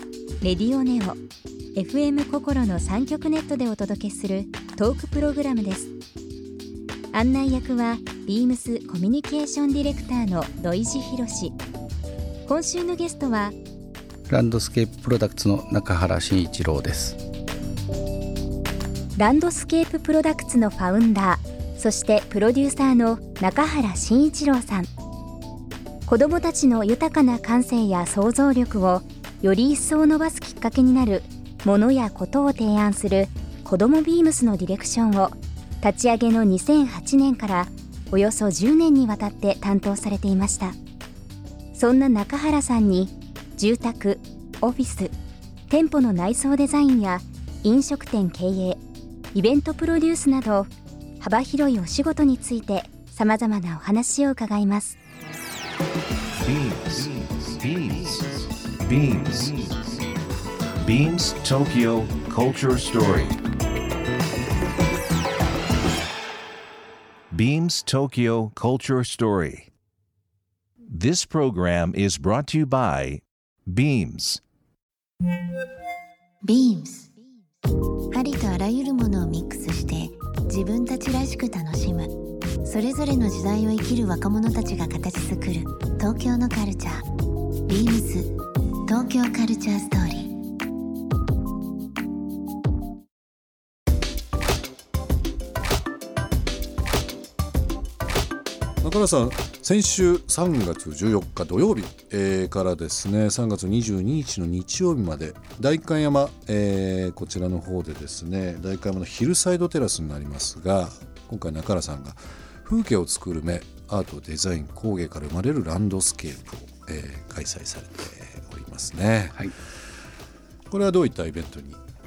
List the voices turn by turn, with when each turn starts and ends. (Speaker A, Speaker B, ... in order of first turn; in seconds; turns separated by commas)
Speaker A: 0.4-1.2, Speaker A: 1.8-5.9, Speaker A: 7.1-11.6, Speaker A: 12.5-13.6, Speaker B: 14.3-17.2, Speaker A: 19.2-24.9, Speaker A: 26.1-40.8, Speaker A: 41.7-45.1, Speaker A: 45.7-48.8, Speaker A: 49.3-50.7, Speaker A: 51.2-55.0, Speaker C: 56.4-60.0, Speaker C: 60.8-63.4, Speaker C: 67.3-69.7, Speaker C: 70.9-74.4, Speaker D: 76.4-77.1, Speaker D: 78.1-87.1, Speaker D: 87.7-90.4, Speaker E: 98.8-119.5, Speaker E: 120.7-121.8